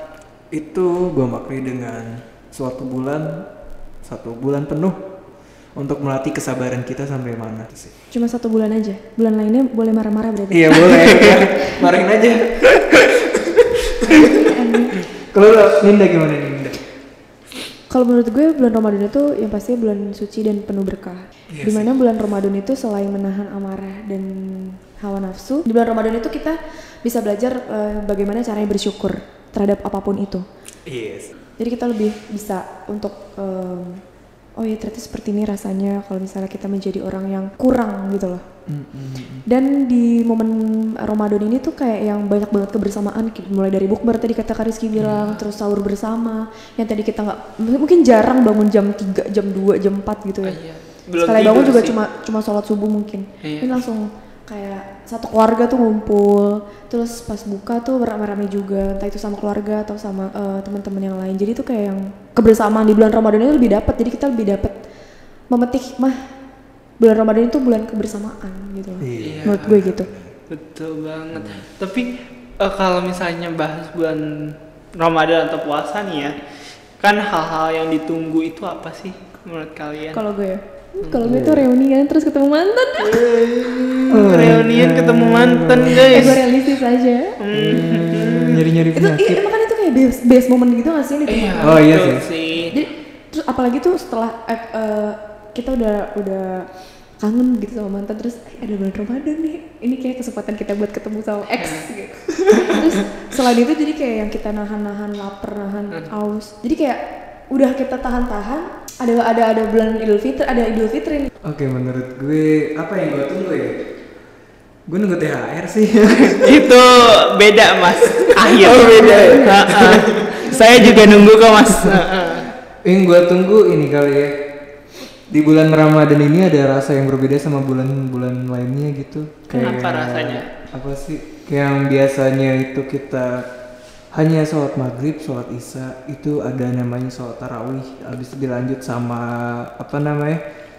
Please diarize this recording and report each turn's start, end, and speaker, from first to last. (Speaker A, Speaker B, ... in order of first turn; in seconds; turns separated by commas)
Speaker A: 0.5-3.4, Speaker A: 4.0-5.0, Speaker A: 5.8-7.9, Speaker B: 8.1-11.8, Speaker A: 10.5-14.5, Speaker C: 11.0-11.4, Speaker B: 14.0-15.0, Speaker A: 15.3-16.8, Speaker B: 17.9-30.4, Speaker A: 21.5-21.9, Speaker A: 30.9-31.3, Speaker B: 31.6-34.0, Speaker B: 34.6-38.4, Speaker A: 38.7-39.4, Speaker B: 39.5-50.6, Speaker C: 45.0-45.5, Speaker C: 50.4-51.9, Speaker B: 51.2-64.7, Speaker C: 53.4-53.8, Speaker B: 65.5-66.2, Speaker B: 67.0-70.1, Speaker A: 69.0-70.3, Speaker C: 69.2-69.7, Speaker C: 70.5-76.3, Speaker A: 71.3-71.6, Speaker C: 77.0-80.2, Speaker B: 80.1-83.4, Speaker A: 81.2-81.7, Speaker C: 83.0-86.5, Speaker A: 84.1-86.3, Speaker B: 85.9-87.4, Speaker C: 87.4-88.7, Speaker A: 87.5-89.4, Speaker B: 88.9-91.8, Speaker C: 91.3-92.7, Speaker A: 91.6-92.2, Speaker B: 92.7-96.7, Speaker B: 97.2-111.3, Speaker C: 101.6-101.8, Speaker A: 111.4-113.8, Speaker A: 114.9-116.7, Speaker C: 116.2-122.5, Speaker A: 118.0-122.0, Speaker B: 118.4-121.3, Speaker A: 122.8-124.4, Speaker A: 125.3-133.5, Speaker C: 129.5-130.5, Speaker A: 134.1-140.4